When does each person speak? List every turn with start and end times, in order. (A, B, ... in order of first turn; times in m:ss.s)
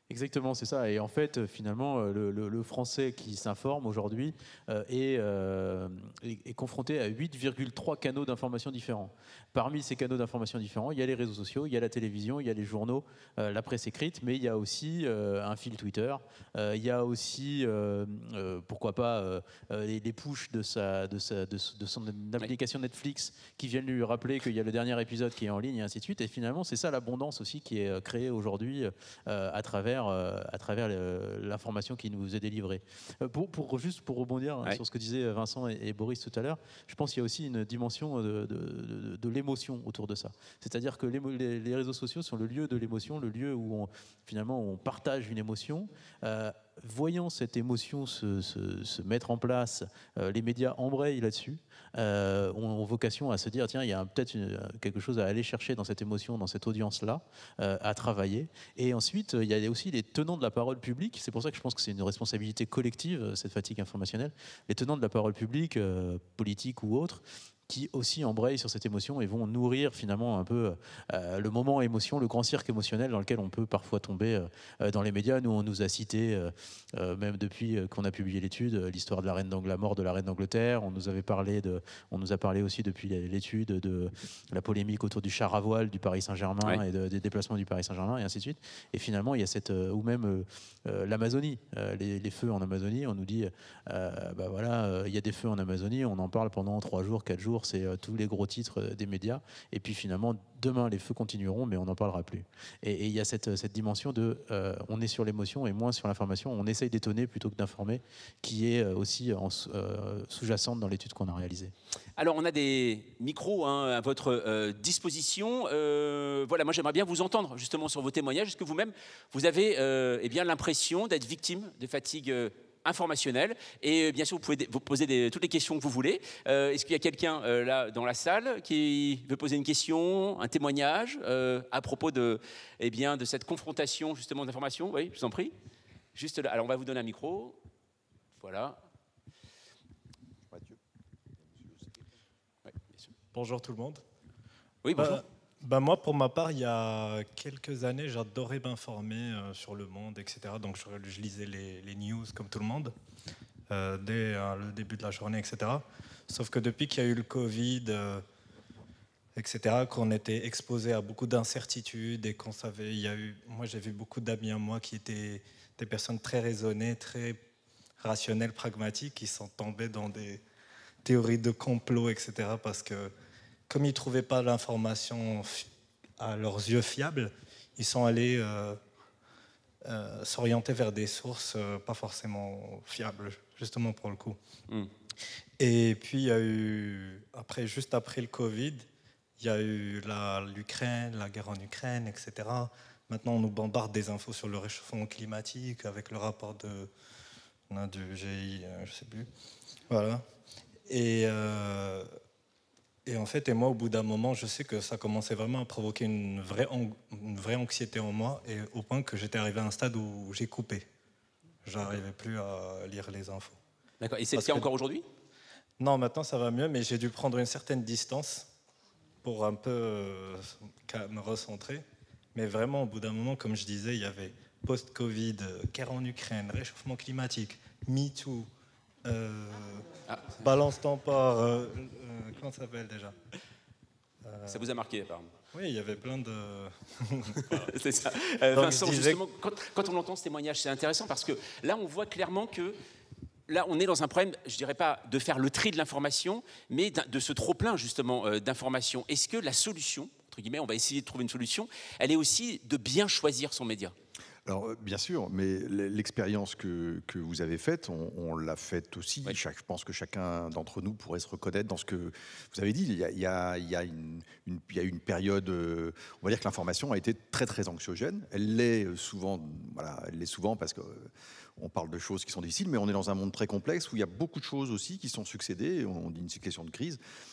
0:00.1-1:51.7 A
1:52.2-2:15.5 B
2:16.2-2:17.6 B
2:18.4-2:18.8 B
2:22.7-2:23.1 B
2:23.3-2:24.0 C
2:24.8-2:25.2 B
2:25.0-2:32.9 C
2:33.7-2:38.2 C
2:39.4-2:47.4 C
2:48.0-2:50.4 C
2:51.0-2:53.1 C
2:53.7-2:55.7 C
2:56.2-2:58.8 C
2:59.8-3:04.4 C
3:05.6-3:08.9 C
3:09.4-3:16.9 C
3:17.7-3:19.3 C
3:19.9-3:20.2 C
3:20.9-3:22.1 C
3:23.1-3:30.8 C
3:31.6-3:33.6 C
3:34.0-3:35.0 B
3:34.3-3:34.7 C
3:35.8-3:38.5 C
3:39.2-3:48.5 C
3:49.0-3:49.9 C
3:50.1-3:50.4 B
3:50.4-3:53.1 C
3:54.2-3:54.7 C
3:54.5-3:55.3 B
3:55.5-3:57.6 C
3:57.5-4:02.8 B
3:58.5-3:59.2 C
4:03.5-4:13.9 B
4:14.5-4:37.0 D